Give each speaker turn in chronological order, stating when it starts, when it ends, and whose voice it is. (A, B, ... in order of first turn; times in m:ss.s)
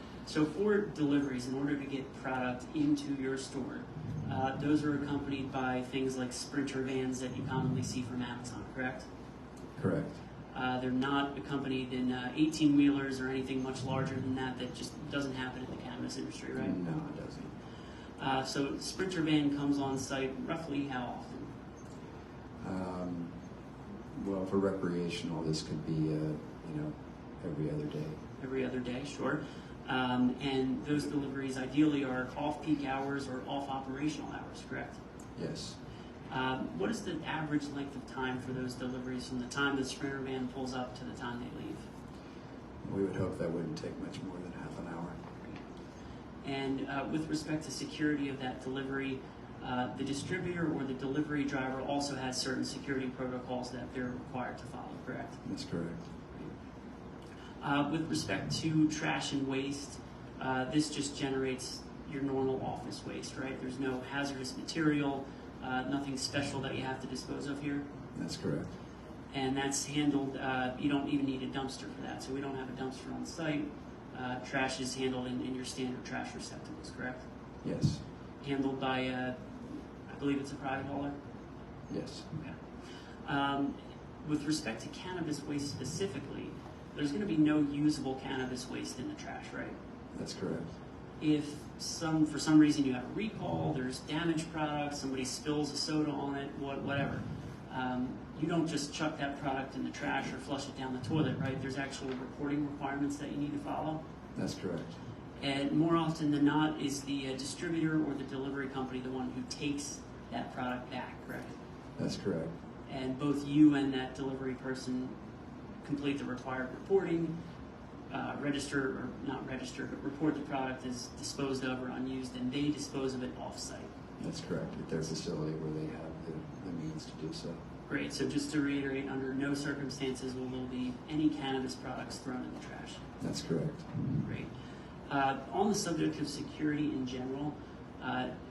0:00.2-0:09.0 A
0:09.8-0:10.2 B
0:10.5-0:16.8 A
0:16.6-0:17.5 B
0:18.2-0:21.5 A
0:22.6-0:23.3 B
0:24.1-0:28.2 B
0:28.4-0:35.0 A
0:35.4-0:35.8 B
0:36.3-0:41.8 A
0:42.8-0:45.2 B
0:46.4-0:55.4 A
0:55.4-0:56.0 B
0:57.6-1:07.8 A
1:08.2-1:08.7 B
1:09.3-1:17.2 A
1:17.6-1:18.0 B
1:18.4-1:21.2 A
1:21.9-1:22.3 B
1:23.2-1:29.8 A
1:30.1-1:30.7 B
1:31.2-1:44.0 A
1:44.4-1:45.0 B
1:45.4-1:51.5 A
1:52.0-1:52.5 B
1:52.9-1:55.1 A
1:55.8-1:57.3 A
1:58.1-2:03.9 A
2:04.2-2:07.6 B
2:07.9-2:13.0 A
2:13.2-2:14.2 B
2:14.1-2:14.5 A
2:15.1-2:18.3 A